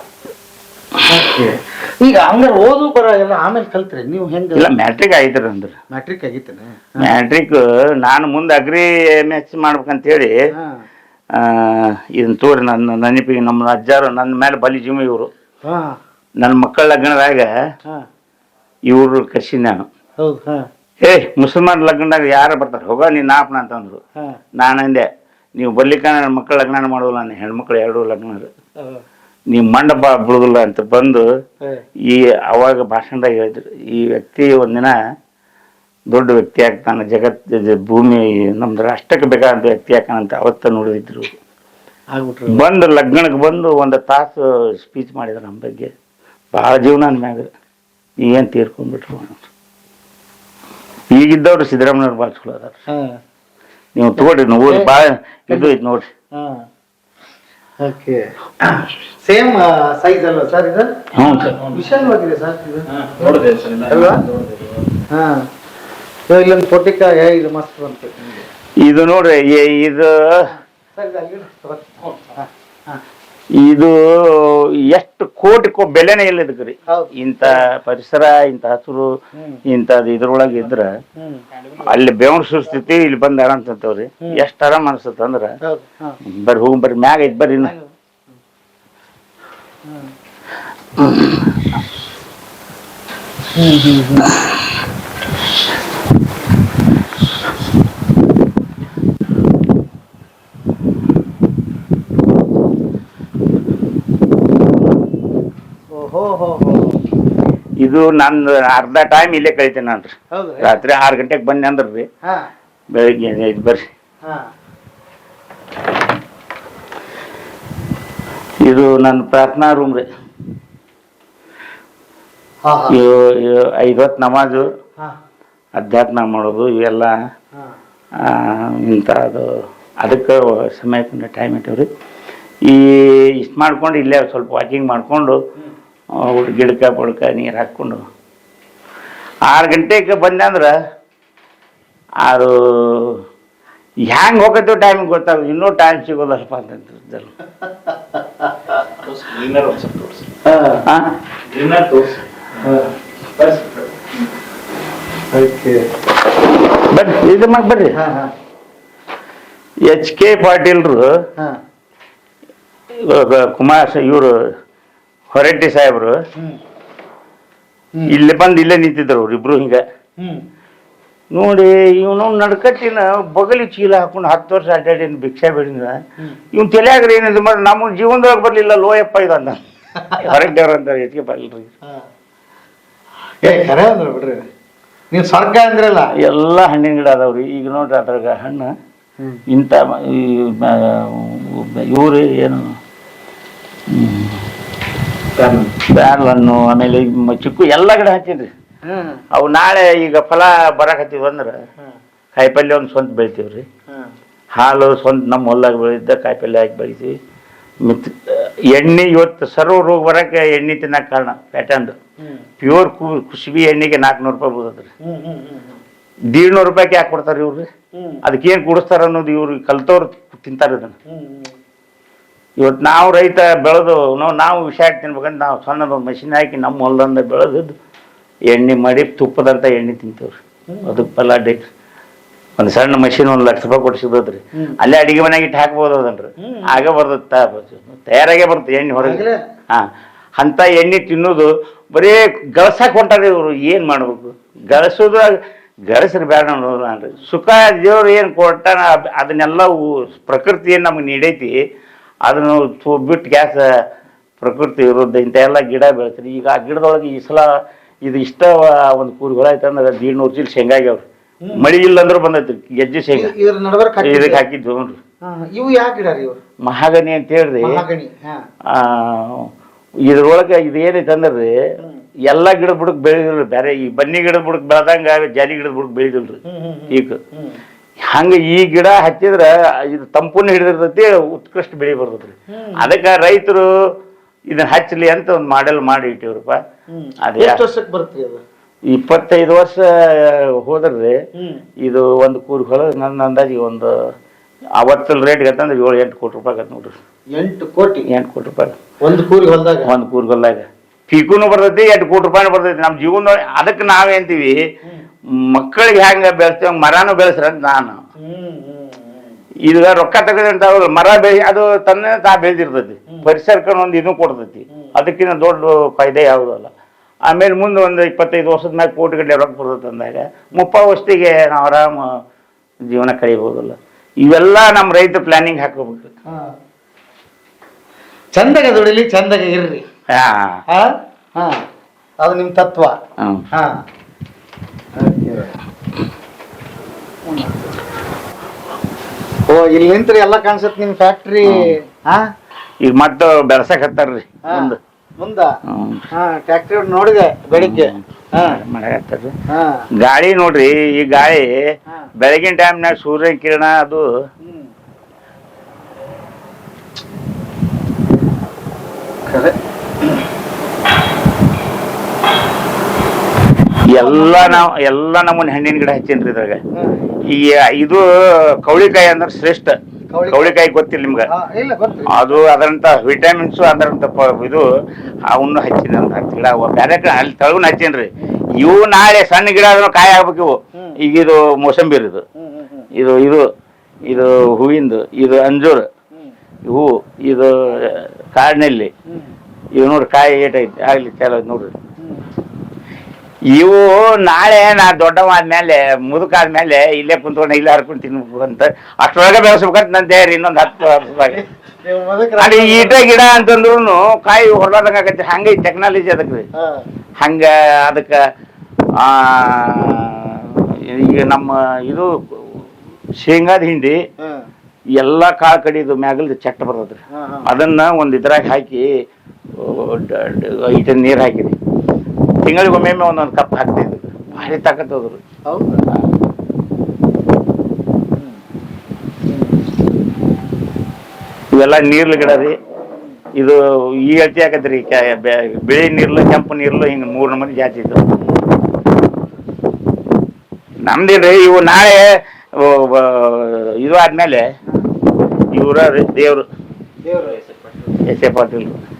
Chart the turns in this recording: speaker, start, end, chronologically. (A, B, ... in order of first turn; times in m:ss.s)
0:01.1-0:04.7 A
0:04.5-0:05.8 B
0:05.9-0:07.1 A
0:07.0-0:10.4 B
0:10.5-0:10.8 A
0:11.3-0:15.3 B
0:15.6-0:16.0 A
0:16.4-0:17.5 B
0:18.9-0:19.9 B
0:20.2-0:20.7 A
0:21.0-0:24.0 B
0:24.5-0:28.5 B
0:29.5-0:31.2 B
0:32.0-0:34.9 B
0:36.1-0:41.4 B
0:42.1-0:42.6 A
0:42.5-0:45.9 B
0:46.5-0:47.5 B
0:48.2-0:49.5 B
0:51.1-0:52.8 B
0:52.9-0:53.2 A
0:53.9-0:56.1 B
0:54.2-0:54.9 A
0:56.3-0:56.6 A
0:57.8-0:58.3 A
0:59.2-1:01.1 A
1:01.1-1:01.6 B
1:01.2-1:02.0 C
1:01.6-1:04.2 A
1:02.9-1:05.0 C
1:05.1-1:05.5 A
1:06.3-1:08.4 A
1:08.8-1:10.5 B
1:10.5-1:13.0 A
1:13.5-1:19.1 B
1:16.9-1:17.6 A
1:19.3-1:19.6 A
1:19.6-1:20.9 B
1:21.2-1:21.4 A
1:21.8-1:25.5 B
1:25.6-1:26.2 A
1:26.2-1:27.7 B
1:27.6-1:27.9 A
1:29.8-1:30.1 A
1:31.0-1:31.4 B
1:33.5-1:34.4 A
1:45.9-1:47.0 A
1:47.8-1:52.1 B
1:50.3-1:50.8 A
1:52.2-1:52.5 A
1:52.9-1:53.9 B
1:54.2-1:54.5 A
1:58.6-2:00.0 B
2:02.6-2:03.0 A
2:02.9-2:04.7 B
2:05.8-2:07.2 B
2:08.2-2:11.9 B
2:12.6-2:15.4 B
2:16.1-2:18.0 B
2:19.5-2:20.7 B
2:22.2-2:23.2 B
2:24.0-2:27.3 B
2:27.9-2:28.5 A
2:29.0-2:30.3 C
2:30.4-2:30.8 A
2:30.8-2:31.1 B
2:31.5-2:32.8 C
2:32.6-2:32.9 A
2:33.4-2:33.9 C
2:35.3-2:35.8 A
2:36.7-2:38.0 B
2:37.9-2:38.3 A
2:39.8-2:41.2 B
2:42.9-2:44.5 B
2:45.3-2:46.2 B
2:48.1-2:49.8 B
2:50.2-2:50.4 A
2:51.3-2:59.6 B
3:00.0-3:00.4 A
3:00.1-3:01.7 B
3:03.4-3:04.4 A
3:05.1-3:06.1 A
3:06.2-3:08.7 B
3:09.5-3:12.8 B
3:13.9-3:14.4 B
3:15.4-3:15.7 C
3:15.9-3:18.5 B
3:18.8-3:19.2 A
3:19.3-3:21.6 B
3:22.3-3:23.7 B
3:24.5-3:27.2 B
3:27.8-3:32.0 B
3:32.2-3:32.5 A
3:32.6-3:34.9 B
3:35.0-3:35.8 A
3:36.3-3:37.7 B
3:37.9-3:38.2 A
3:38.2-3:40.9 B
3:41.1-3:41.5 A
3:42.6-3:47.7 B
3:48.5-3:51.7 B
3:50.7-3:51.0 A
3:52.6-4:11.6 B
3:56.4-3:56.8 A
3:59.0-3:59.4 A
4:12.3-4:13.7 B
4:14.4-4:23.3 B
4:21.4-4:21.7 A
4:23.1-4:24.4 A
4:24.0-4:25.0 B
4:25.2-4:26.4 A
4:26.6-4:27.8 B
4:27.6-4:28.4 A
4:28.6-4:29.5 B
4:30.0-4:31.5 B
4:32.3-4:37.2 B
4:36.4-4:37.6 A
4:38.1-4:43.7 B
4:42.5-4:42.9 A
4:44.5-4:46.6 B
4:46.9-4:48.4 A
4:47.2-4:47.6 B
4:48.9-4:51.2 B
4:51.4-4:51.6 A
4:51.8-4:54.1 B
4:54.8-4:57.0 B
4:57.4-4:58.1 A
4:58.1-4:58.8 B
4:59.0-4:59.9 A
4:59.8-5:04.6 B
5:05.4-5:08.0 B
5:08.2-5:09.4 A
5:09.6-5:16.7 B
5:17.3-5:22.2 B
5:22.8-5:26.1 B
5:26.3-5:26.5 A
5:28.3-5:29.8 A
5:30.1-5:30.6 B
5:30.7-5:31.6 A
5:32.2-5:33.0 A
5:33.2-5:33.5 B
5:33.5-5:33.8 A
5:34.9-5:35.6 A
5:37.2-5:37.7 A
5:39.4-5:42.3 A
5:41.4-5:41.8 B
5:42.8-5:44.8 B
5:44.5-5:45.6 A
5:45.6-5:46.1 B
5:46.1-5:48.6 A
5:47.5-5:49.3 B
5:49.5-5:49.9 A
5:50.0-5:54.0 B
5:54.4-5:54.7 A
5:59.2-6:00.2 A
6:03.8-6:06.6 B
6:03.9-6:04.7 A
6:06.7-6:07.1 A
6:07.2-6:11.3 B
6:10.1-6:10.6 A
6:11.3-6:12.4 A
6:12.1-6:14.7 B
6:15.2-6:22.2 B
6:22.4-6:22.9 A
6:22.9-6:23.5 B
6:24.1-6:25.9 B
6:26.6-6:28.9 B
6:29.0-6:29.3 A
6:29.7-6:31.7 B
6:32.0-6:32.3 A
6:33.5-6:41.4 B
6:41.3-6:43.0 A
6:42.4-6:46.5 B
6:46.6-6:46.8 A
6:47.2-6:48.2 B
6:49.0-6:54.0 B
6:54.2-6:54.5 A
6:55.0-6:58.9 B
6:57.1-6:57.5 A
6:59.6-7:01.6 B
7:02.4-7:05.2 B
7:05.4-7:05.8 A
7:08.1-7:08.4 A
7:09.2-7:09.6 A
7:11.5-7:12.6 B
7:13.4-7:18.0 B
7:20.8-7:24.5 B
7:25.5-7:26.5 B
7:27.0-7:27.4 A
7:27.2-7:28.0 C
7:28.0-7:28.8 B